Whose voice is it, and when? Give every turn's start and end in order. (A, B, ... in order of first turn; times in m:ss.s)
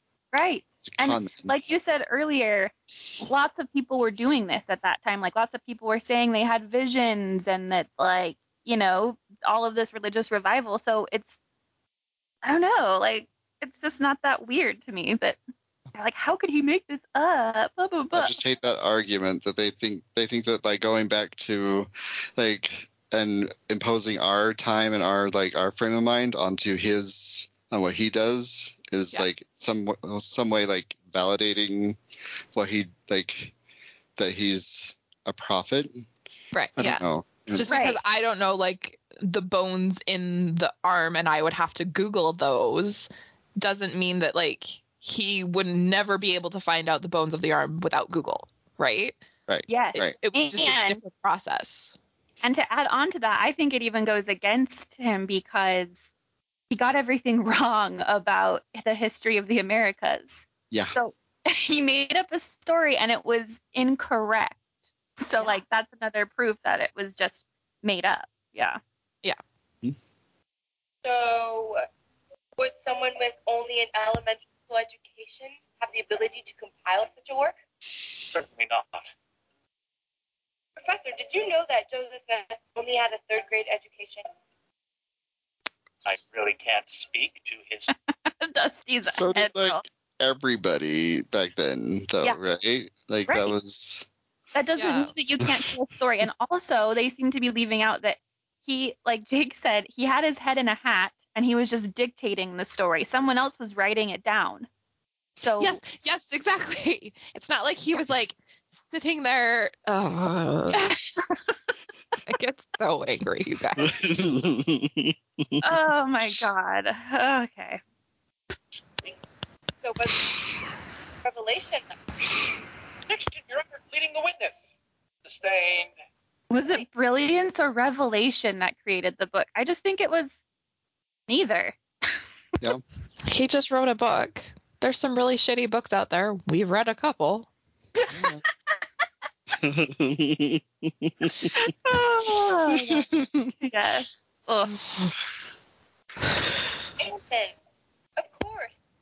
0:00.3-0:11.4 A
0:00.8-0:01.6 B
0:12.4-0:15.4 A
0:16.0-0:18.4 A
0:18.1-0:32.0 B
0:32.5-0:33.5 B
0:34.2-0:36.0 B
0:36.5-0:49.2 C
0:36.8-0:37.7 B
0:37.7-0:38.0 A
0:49.5-0:50.2 B
0:49.7-0:51.0 A
0:49.9-0:51.9 C
0:52.4-0:56.0 A
0:56.7-1:04.6 A
1:00.7-1:01.0 B
1:05.2-1:08.8 A
1:11.0-1:11.8 D
1:12.6-1:17.6 D
1:18.3-1:19.1 E
1:20.8-1:24.2 D
1:26.0-1:27.9 E
1:28.2-1:29.8 A
1:29.0-1:34.1 B
1:33.3-1:33.5 A
1:34.5-1:44.7 A
1:34.8-1:35.1 C
1:45.4-1:45.8 A
1:45.6-1:48.4 C
1:48.9-1:50.9 C
1:50.8-1:51.5 A
1:52.3-1:53.9 C
1:53.8-1:55.8 B
1:55.6-1:57.8 A
1:59.8-2:00.3 D
2:01.2-2:02.0 D
2:03.1-2:04.7 F
2:05.2-2:05.9 F
2:06.5-2:10.3 A
2:11.3-2:12.1 A
2:13.3-2:17.5 C
2:18.1-2:18.4 B
2:19.6-2:21.7 B
2:21.6-2:23.1 A
2:22.7-2:23.5 B
2:23.6-2:24.8 A
2:27.0-2:27.6 D
2:28.2-2:28.8 D